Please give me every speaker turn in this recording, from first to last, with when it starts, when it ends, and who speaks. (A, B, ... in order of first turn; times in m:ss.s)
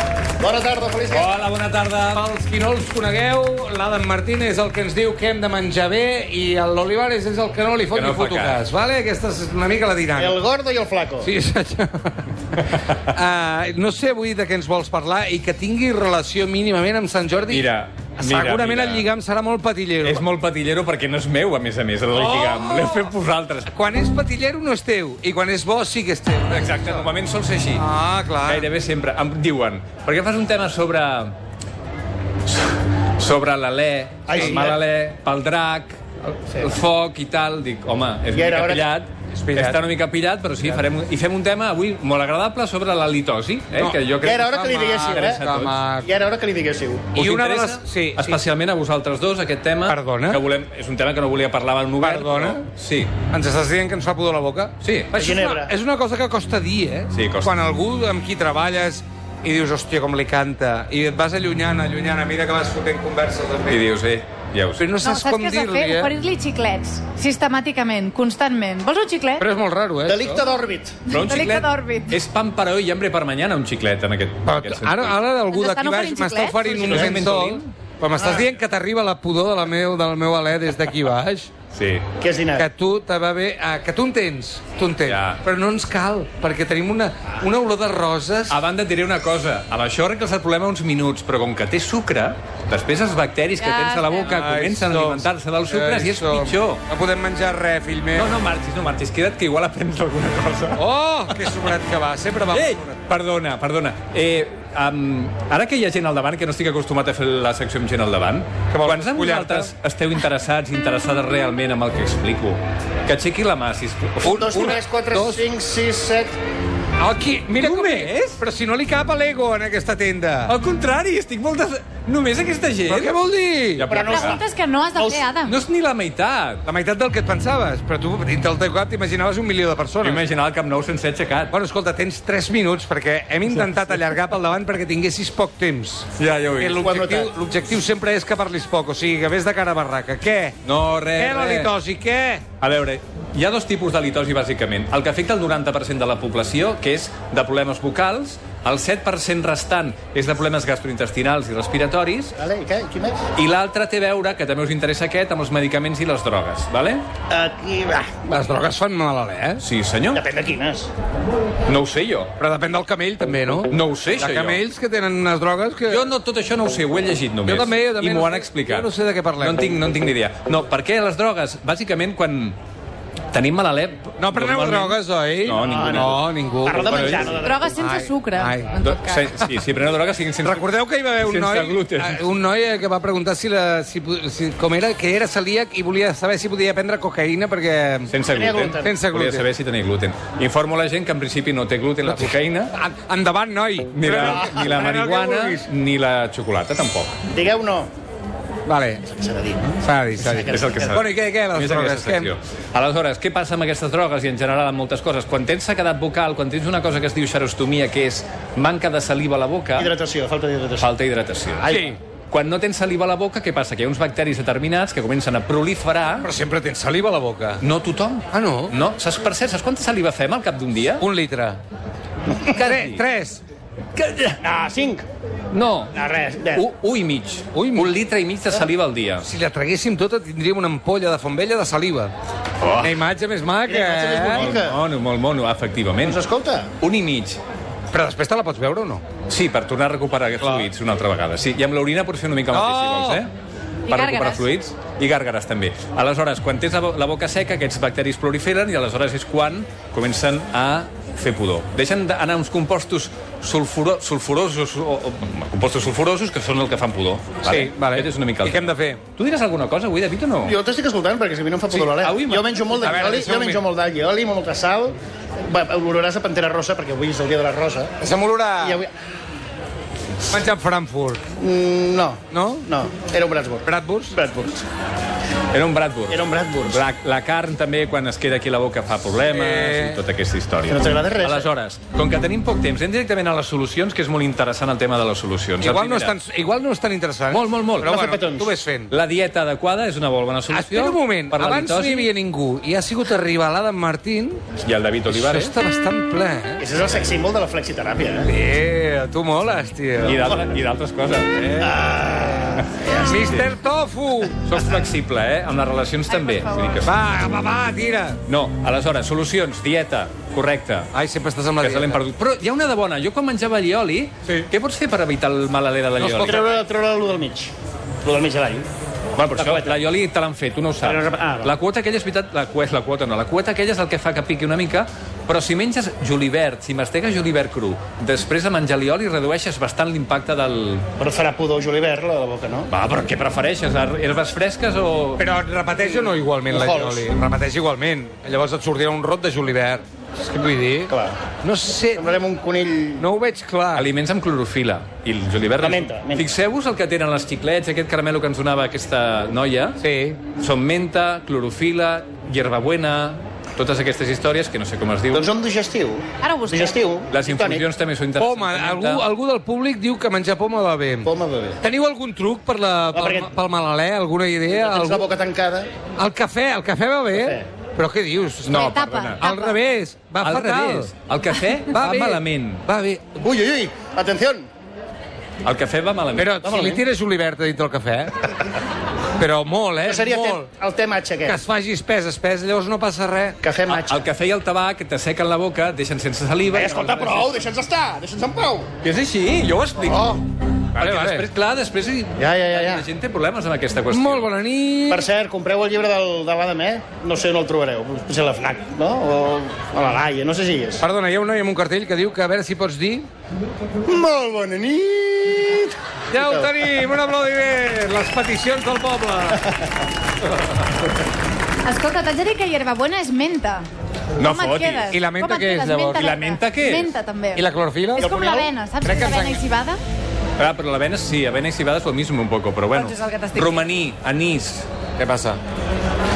0:00.4-0:01.3 A
0:01.1-0:02.2 B
0:02.1-0:10.4 C
0:07.9-0:08.6 B
0:10.2-0:11.3 A
0:11.2-0:20.3 C
0:17.5-0:19.1 B
0:20.0-0:23.7 B
0:22.1-0:23.1 C
0:23.7-0:27.1 C
0:26.5-0:27.8 B
0:27.8-0:28.7 C
0:28.5-0:31.3 B
0:32.5-0:44.4 B
0:34.3-0:34.8 A
0:34.3-0:34.6 C
0:38.3-0:38.9 A
0:39.3-0:39.9 C
0:43.8-0:46.1 C
0:44.2-0:45.4 A
0:45.0-0:45.8 B
0:46.0-0:47.1 A
0:47.2-0:48.4 C
0:47.2-0:53.1 B
0:49.9-0:50.4 C
0:52.0-0:52.6 C
0:53.3-1:03.9 C
0:54.8-0:55.3 B
0:55.2-0:55.7 A
0:57.1-0:57.5 B
1:03.7-1:04.9 B
1:04.8-1:06.1 C
1:05.0-1:09.5 D
1:09.4-1:10.4 C
1:10.1-1:11.0 A
1:11.1-1:12.2 D
1:11.1-1:15.3 B
1:14.4-1:21.5 C
1:15.5-1:16.8 D
1:16.8-1:17.7 B
1:16.9-1:17.2 A
1:18.2-1:18.5 A
1:21.7-1:22.1 B
1:22.2-1:22.7 A
1:22.6-1:28.6 C
1:25.0-1:25.4 B
1:28.5-1:36.8 B
1:33.6-1:34.3 D
1:34.2-1:38.4 C
1:38.2-1:40.8 B
1:40.8-1:43.0 C
1:42.5-1:54.8 B
1:48.7-1:49.7 C
1:54.2-1:55.5 C
1:54.2-1:56.3 A
1:57.0-2:00.6 C
1:57.6-1:58.4 B
2:00.5-2:03.2 B
2:02.9-2:03.9 C
2:03.8-2:04.4 B
2:03.9-2:04.4 A
2:03.9-2:05.6 D
2:05.0-2:05.3 A
2:05.5-2:06.6 B
2:06.6-2:10.3 C
2:10.0-2:11.5 B
2:11.5-2:20.6 C
2:16.2-2:16.8 B
2:16.8-2:17.3 A
2:20.6-2:21.7 B
2:21.2-2:22.4 C
2:22.6-2:32.4 B
2:32.4-2:33.2 A
2:33.4-2:37.1 B
2:37.3-2:38.2 A
2:38.3-2:39.6 C
2:39.6-2:40.2 B
2:40.1-2:40.9 A
2:41.7-2:42.3 B
2:42.4-2:46.1 C
2:43.7-2:44.6 B
2:45.9-2:48.9 B
2:47.4-2:49.8 C
2:49.4-2:52.6 B
2:53.3-2:56.2 B
2:54.2-2:58.8 C
2:55.5-2:57.8 A
2:56.9-2:57.3 B
2:57.4-2:59.4 D
2:58.8-3:02.2 B
3:00.4-3:08.1 C
3:08.1-3:12.7 B
3:08.3-3:09.0 A
3:08.8-3:09.5 C
3:12.0-3:15.7 C
3:13.9-3:17.1 B
3:17.3-3:17.9 A
3:18.7-3:19.0 C
3:19.0-3:21.0 A
3:19.8-3:22.3 C
3:20.4-3:29.9 B
3:29.8-3:30.9 A
3:30.8-3:36.3 B
3:31.6-3:32.0 C
3:36.2-3:37.6 C
3:37.6-3:41.0 B
3:38.3-3:38.8 C
3:41.0-3:41.6 C
3:42.5-3:43.4 C
3:42.6-3:43.0 B
3:44.0-3:44.4 B
3:44.4-3:45.1 A
3:45.5-3:46.0 B
3:45.9-3:46.6 A
3:46.6-3:49.3 B
3:47.5-3:47.9 C
3:49.2-3:52.1 C
3:52.6-3:52.9 B
3:52.8-3:54.6 C
3:53.7-3:54.8 A
3:54.3-3:56.2 B
3:56.0-3:56.7 A
3:56.8-3:57.4 B
3:57.9-3:59.0 C
3:59.3-4:03.3 B
4:00.4-4:00.7 C
4:02.5-4:03.3 C
4:03.9-4:04.5 D
4:03.9-4:20.6 B
4:17.4-4:19.0 C
4:20.4-4:25.0 A
4:21.7-4:23.1 B
4:22.8-4:23.6 C
4:25.5-4:27.9 A
4:28.0-4:28.8 C
4:28.6-4:28.9 A
4:30.3-4:31.2 C
4:31.4-4:34.6 A
4:32.3-4:32.7 C
4:33.6-4:34.2 C
4:35.5-4:46.2 B
4:36.1-4:36.8 A
4:39.3-4:40.0 C
4:40.7-4:41.5 A
4:45.6-4:48.9 C
4:47.3-4:48.0 B
4:47.8-4:48.6 A
4:48.9-4:52.1 B
4:50.5-4:54.4 C
4:54.6-4:55.6 B
4:55.1-4:56.6 C
4:56.6-4:58.3 A
4:58.2-5:00.4 C
5:00.0-5:01.4 B
5:01.3-5:01.8 C
5:01.6-5:02.9 A
5:02.6-5:03.5 B
5:02.9-5:03.2 D
5:03.0-5:04.4 C
5:04.4-5:06.9 B
5:06.1-5:06.8 D
5:06.8-5:08.2 C
5:08.3-5:10.9 B
5:10.9-5:12.0 C
5:11.6-5:16.4 B
5:16.0-5:16.4 C
5:16.2-5:17.5 A
5:18.0-5:19.8 A
5:19.2-5:30.9 B
5:20.8-5:21.6 A
5:31.0-5:32.7 A
5:32.7-5:35.2 B
5:35.2-5:40.9 C
5:36.5-5:37.1 A
5:40.9-5:41.2 A
5:41.4-5:42.1 C
5:41.9-5:43.0 A
5:43.0-5:43.9 C
5:43.8-5:49.8 B
5:45.6-5:46.3 A
5:49.8-5:50.2 C
5:50.4-5:55.3 B
5:55.1-5:57.7 A
5:56.2-5:56.8 D
5:57.1-5:59.1 B
5:58.2-6:01.1 C
6:01.0-6:01.6 A
6:01.6-6:05.1 C
6:02.9-6:03.3 A
6:04.5-6:05.7 A
6:06.0-6:10.9 C
6:07.1-6:07.4 A
6:08.4-6:09.2 B
6:08.5-6:09.6 D
6:10.2-6:12.6 B
6:11.7-6:13.0 C
6:13.2-6:14.5 A
6:15.4-6:16.4 B
6:16.2-6:18.2 C
6:16.4-6:16.8 A
6:19.2-6:20.5 C
6:19.8-6:21.4 A
6:21.2-6:23.4 C
6:23.4-6:24.0 A
6:23.7-6:27.4 B
6:26.5-6:28.7 A
6:28.8-6:30.2 B
6:29.8-6:30.2 A
6:30.8-6:34.3 B
6:30.8-6:31.3 C
6:32.2-6:32.9 A
6:33.9-6:35.1 C
6:34.9-6:40.8 A
6:40.8-6:43.1 C
6:43.8-6:46.5 A
6:46.1-6:49.5 C
6:51.6-6:53.7 D
6:54.2-6:54.9 B
6:54.2-6:59.8 D
6:54.9-6:56.0 C
6:55.9-6:57.0 B
6:57.3-6:58.1 C
6:58.0-6:58.5 A
6:58.8-6:59.4 C
7:00.4-7:04.7 B
7:02.7-7:03.6 D
7:05.0-7:05.4 C